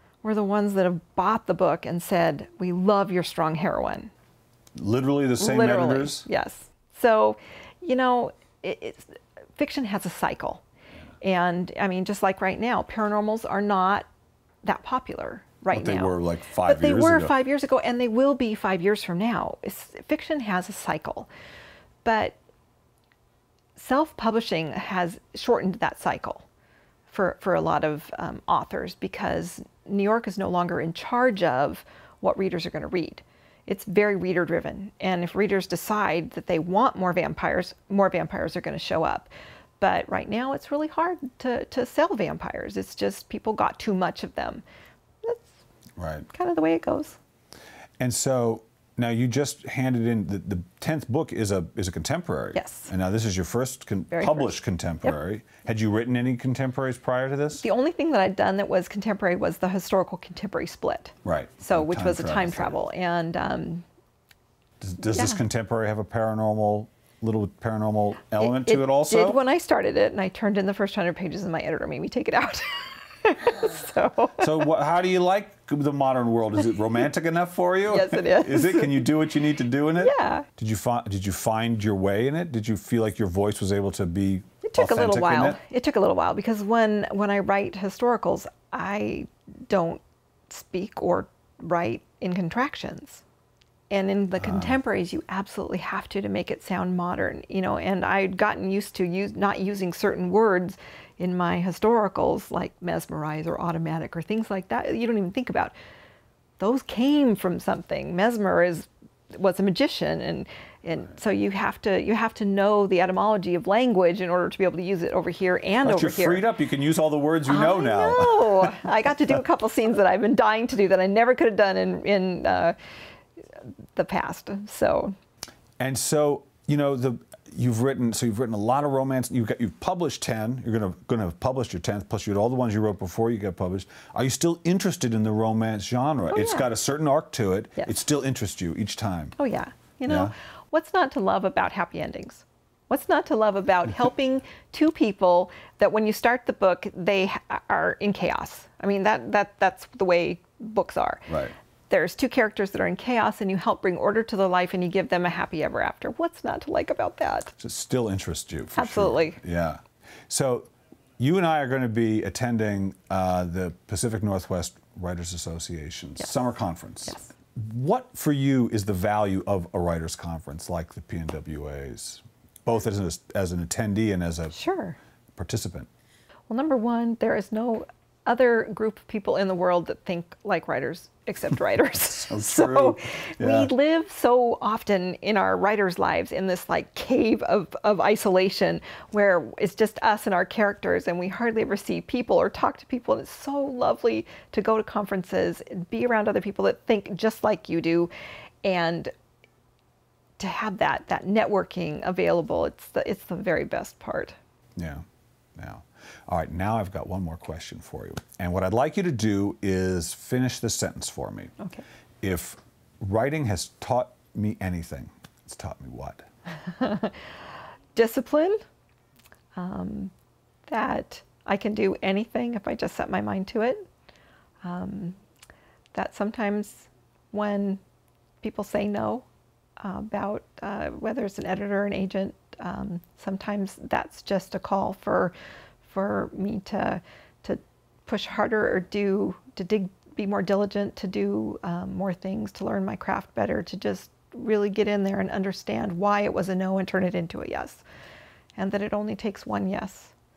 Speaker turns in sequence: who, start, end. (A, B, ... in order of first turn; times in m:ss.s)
0:00.2-0:04.1 A
0:04.8-0:06.3 B
0:05.4-0:10.6 A
0:11.2-0:14.1 A
0:14.6-0:21.3 A
0:15.7-0:17.3 B
0:22.0-0:22.4 A
0:23.8-0:26.4 A
0:27.1-0:39.3 A
0:39.8-0:44.6 A
0:45.2-0:45.5 A
0:46.0-0:46.3 B
0:46.3-0:47.2 A
0:48.0-0:57.6 B
0:52.5-0:52.9 A
0:54.1-0:55.1 A
0:57.6-1:03.8 A
1:01.2-1:02.8 B
1:04.8-1:09.4 B
1:05.1-1:05.4 A
1:08.4-1:14.7 A
1:14.4-1:25.6 B
1:17.9-1:19.1 A
1:20.0-1:20.5 A
1:24.6-1:33.2 A
1:33.9-1:45.7 A
1:34.4-1:34.8 B
1:46.6-1:56.5 A
1:55.8-1:58.8 B
1:57.5-2:02.8 A
2:04.0-2:05.1 A
2:05.8-2:19.3 B
2:16.3-2:16.7 A
2:19.4-2:31.3 A
2:20.1-2:20.3 B
2:31.3-2:31.5 B
2:31.9-2:37.5 A
2:37.6-2:54.6 B
2:38.7-2:39.4 A
2:47.0-2:47.3 A
2:54.5-2:55.0 A
2:55.4-2:55.9 B
2:56.5-3:18.1 A
3:02.2-3:03.7 B
3:18.6-3:19.1 A
3:20.4-3:24.3 A
3:24.8-3:25.0 B
3:25.6-3:31.5 B
3:32.2-3:36.2 B
3:36.6-3:37.2 A
3:37.9-3:38.6 A
3:39.6-3:40.1 A
3:40.7-3:43.8 A
3:44.6-3:45.2 A
3:45.9-3:47.8 A
3:48.4-3:49.2 A
3:49.8-3:55.3 A
3:55.8-4:07.8 A
4:08.6-4:10.1 A